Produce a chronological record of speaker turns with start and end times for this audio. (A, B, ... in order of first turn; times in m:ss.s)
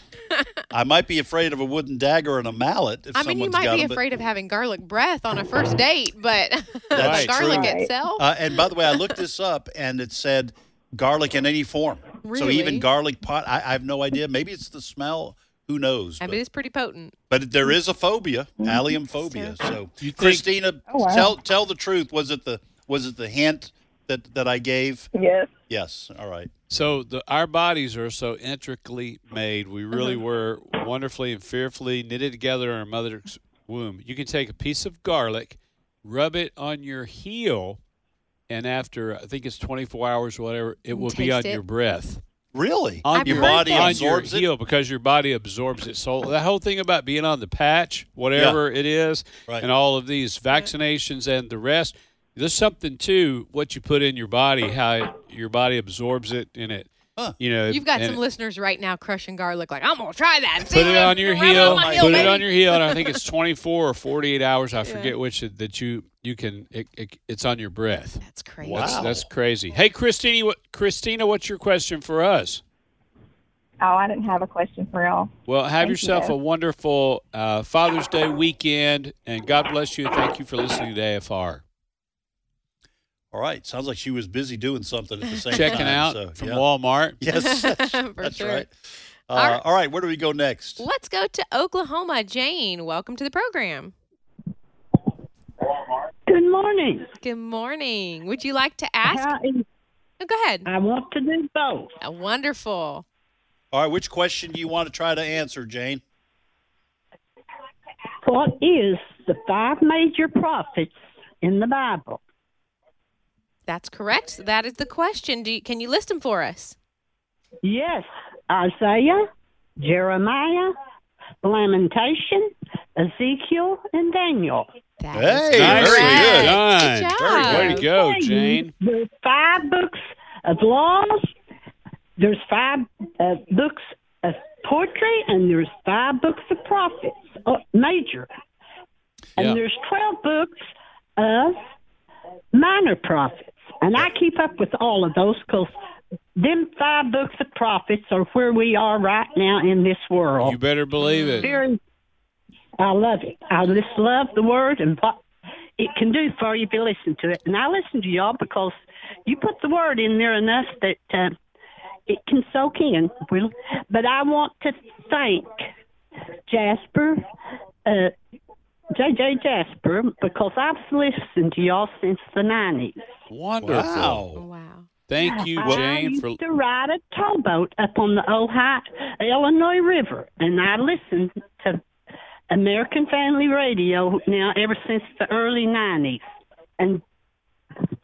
0:00.7-0:04.0 A
0:03.1-0:08.3 B
0:06.9-0:16.4 A
0:06.9-0:07.4 C
0:07.4-0:07.9 D
0:12.2-0:12.9 B
0:16.2-0:17.1 B
0:17.3-0:25.1 A
0:18.6-0:19.0 D
0:19.2-0:19.6 B
0:20.0-0:20.4 C
0:20.9-0:21.4 D
0:25.1-0:25.5 D
0:25.7-0:26.5 A
0:26.7-0:37.8 C
0:38.5-0:42.2 C
0:40.9-0:41.6 B
0:42.5-0:44.5 A
0:43.0-0:58.2 C
0:43.1-0:44.0 B
0:57.7-1:03.0 B
1:00.7-1:12.6 C
1:01.4-1:02.4 A
1:04.8-1:05.1 B
1:08.2-1:09.1 B
1:08.7-1:09.2 A
1:13.8-1:15.3 D
1:15.5-1:21.6 C
1:15.8-1:16.3 D
1:23.3-1:26.6 A
1:25.5-1:27.2 C
1:27.2-1:28.7 A
1:27.3-1:28.6 B
1:29.3-1:30.8 A
1:29.3-1:29.6 B
1:30.8-1:33.9 B
1:36.3-1:37.1 E
1:37.2-1:39.3 B
1:39.0-1:39.6 E
1:40.2-1:40.7 B
1:40.6-1:41.9 E
1:42.0-1:43.0 B
1:43.7-1:46.0 A
1:48.2-1:52.2 E
1:53.7-1:56.8 B
1:57.6-1:59.2 E
1:59.8-2:00.7 E
2:01.4-2:04.7 E
2:05.0-2:07.8 B
2:05.1-2:06.6 A
2:05.5-2:08.7 C
2:07.2-2:07.8 A
2:07.7-2:11.3 E
2:12.2-2:18.3 E
2:19.4-2:21.6 E
2:22.5-2:25.7 E
2:26.4-2:30.6 E
2:30.4-2:31.5 C
2:31.0-2:31.6 B
2:31.4-2:31.8 E
2:32.8-2:35.2 E
2:35.8-2:41.4 E
2:42.1-2:45.7 E
2:46.5-2:47.2 E
2:47.8-2:48.1 E
2:48.9-2:53.1 E
2:53.3-2:54.2 C
2:53.6-2:54.4 A
2:54.3-2:54.9 B
2:55.1-2:56.4 C
2:55.2-3:01.8 E
3:02.5-3:06.2 E